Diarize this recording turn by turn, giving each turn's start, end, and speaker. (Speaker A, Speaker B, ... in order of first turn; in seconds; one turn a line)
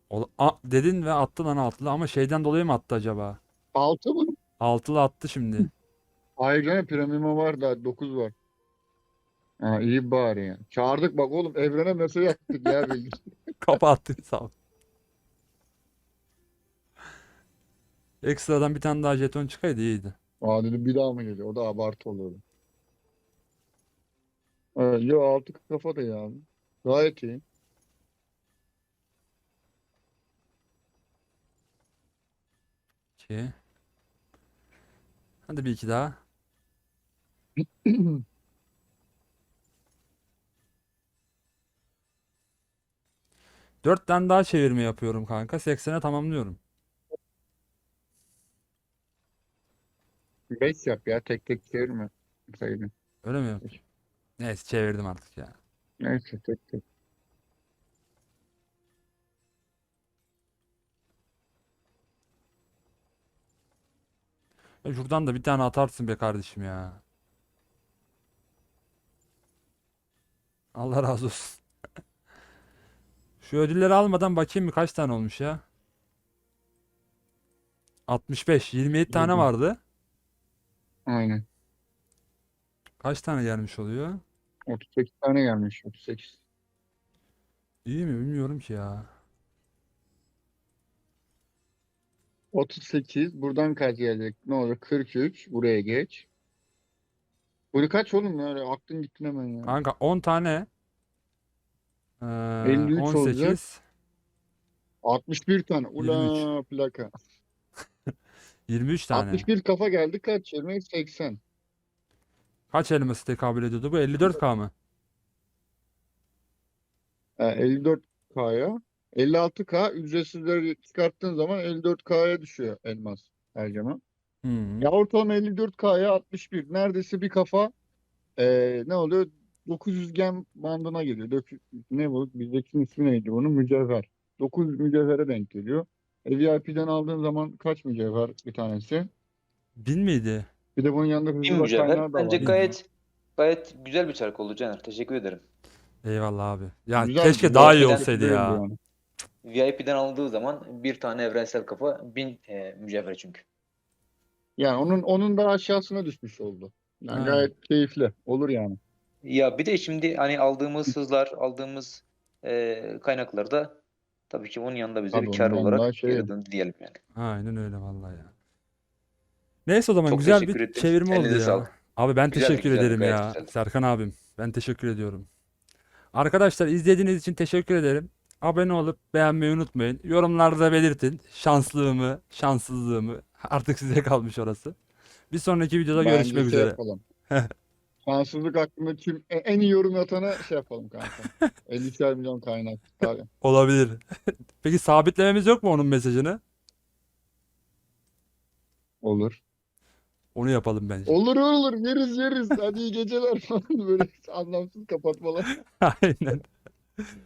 Speaker A: 0.1-3.4
Speaker B: 3.8-4.3
Speaker A: 4.6-5.7
Speaker B: 6.4-8.3
Speaker B: 9.6-13.2
Speaker A: 13.6-14.5
Speaker A: 18.2-20.2
Speaker B: 20.4-22.4
Speaker B: 24.8-27.4
Speaker A: 33.2-33.5
Speaker A: 35.5-36.2
Speaker B: 37.9-38.2
Speaker A: 43.8-46.6
Speaker B: 50.6-52.9
Speaker A: 53.2-53.8
Speaker A: 54.4-55.6
Speaker B: 56.0-56.8
Speaker A: 64.8-67.0
Speaker A: 70.8-71.6
Speaker A: 73.4-75.6
Speaker A: 78.1-79.8
Speaker B: 79.1-79.5
Speaker B: 81.1-81.4
Speaker A: 83.0-84.2
Speaker B: 84.7-86.4
Speaker A: 87.8-89.1
Speaker B: 92.5-96.3
Speaker B: 97.7-99.8
Speaker A: 99.7-100.7
Speaker A: 102.2-103.8
Speaker B: 102.6-103.6
Speaker B: 105.0-107.1
Speaker A: 106.0-106.5
Speaker A: 108.7-109.5
Speaker B: 109.1-111.4
Speaker A: 112.7-114.7
Speaker B: 117.4-124.0
Speaker A: 124.4-124.9
Speaker B: 124.8-127.7
Speaker B: 128.4-139.1
Speaker A: 139.8-140.5
Speaker B: 140.8-142.5
Speaker C: 141.4-142.8
Speaker A: 142.4-142.8
Speaker C: 143.4-145.4
Speaker A: 146.0-148.6
Speaker B: 146.9-148.7
Speaker C: 147.6-148.1
Speaker C: 149.4-153.4
Speaker B: 154.6-158.8
Speaker A: 157.1-157.5
Speaker C: 159.2-167.0
Speaker B: 165.1-166.3
Speaker A: 167.1-168.3
Speaker A: 169.7-175.3
Speaker C: 170.1-171.7
Speaker C: 172.3-173.5
Speaker A: 176.1-184.8
Speaker A: 185.3-186.8
Speaker B: 186.0-187.0
Speaker B: 188.0-193.3
Speaker A: 191.1-191.5
Speaker A: 193.0-194.0
Speaker A: 194.6-196.4
Speaker B: 199.0-199.4
Speaker A: 200.3-201.2
Speaker B: 201.1-205.5
Speaker A: 205.5-207.1